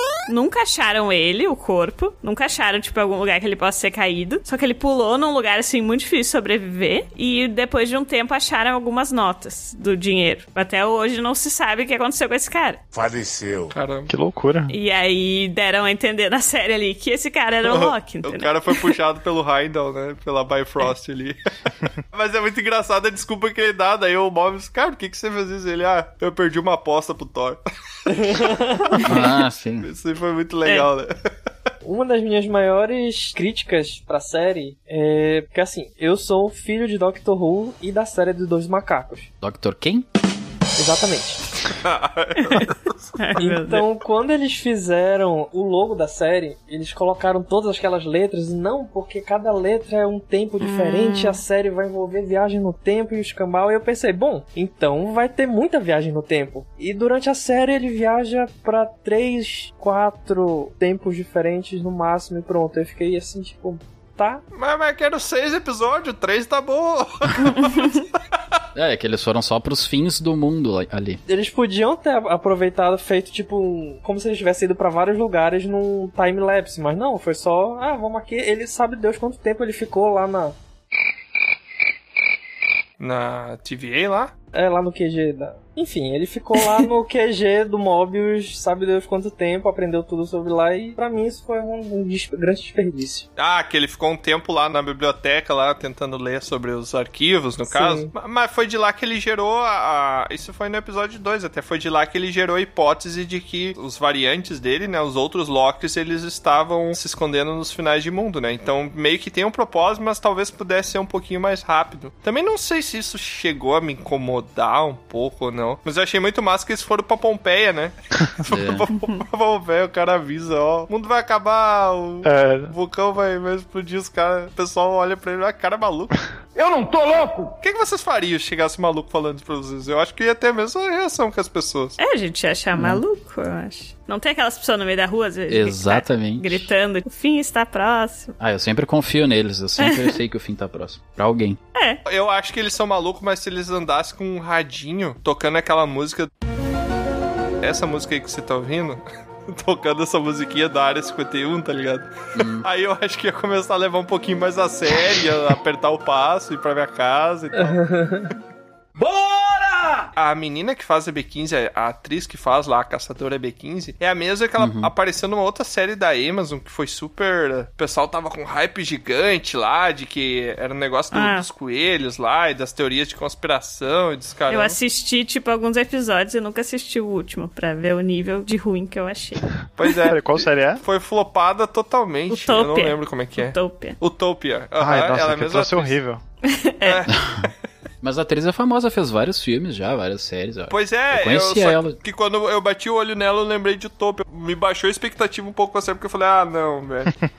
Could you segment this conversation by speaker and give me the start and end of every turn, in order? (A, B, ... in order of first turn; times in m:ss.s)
0:00.3-0:12.8 A
0:13.7-0:14.1 B
0:14.1-0:14.7 C
0:14.7-0:18.9 A
0:17.6-0:21.4 B
0:22.1-0:27.6 B
0:28.1-0:28.9 D
0:28.9-0:31.1 B
0:29.0-0:29.9 E
0:31.8-0:39.3 D
0:39.4-0:40.1 E
0:40.8-0:41.4 D
0:41.8-0:42.8 B
0:43.2-0:43.9 A
0:43.4-1:04.4 D
0:50.6-0:51.4 A
1:04.5-1:08.0 B
1:08.7-1:11.2 E
1:11.3-1:20.5 D
1:23.0-1:24.3 B
1:24.5-1:33.3 D
1:33.4-2:06.1 B
1:37.7-1:38.1 D
1:58.5-1:58.8 E
2:02.2-2:02.7 C
2:06.5-2:07.5 F
2:07.6-2:12.0 B
2:12.0-2:18.3 A
2:12.7-2:13.0 E
2:15.5-2:16.7 E
2:18.4-2:21.6 E
2:19.8-2:20.1 A
2:21.7-2:22.0 A
2:22.0-2:26.3 B
2:27.6-2:37.8 B
2:32.3-2:32.6 E
2:37.5-2:38.3 D
2:39.0-2:39.9 F
2:40.2-2:54.8 B
2:44.6-2:44.9 E
2:51.1-2:51.4 A
2:54.5-2:59.5 A
2:59.8-3:06.0 B
3:00.0-3:00.8 C
3:02.3-3:04.0 A
3:04.8-3:06.2 C
3:06.4-3:07.0 A
3:06.8-3:07.5 B
3:07.1-3:07.5 E
3:08.0-3:12.0 E
3:10.7-3:17.1 B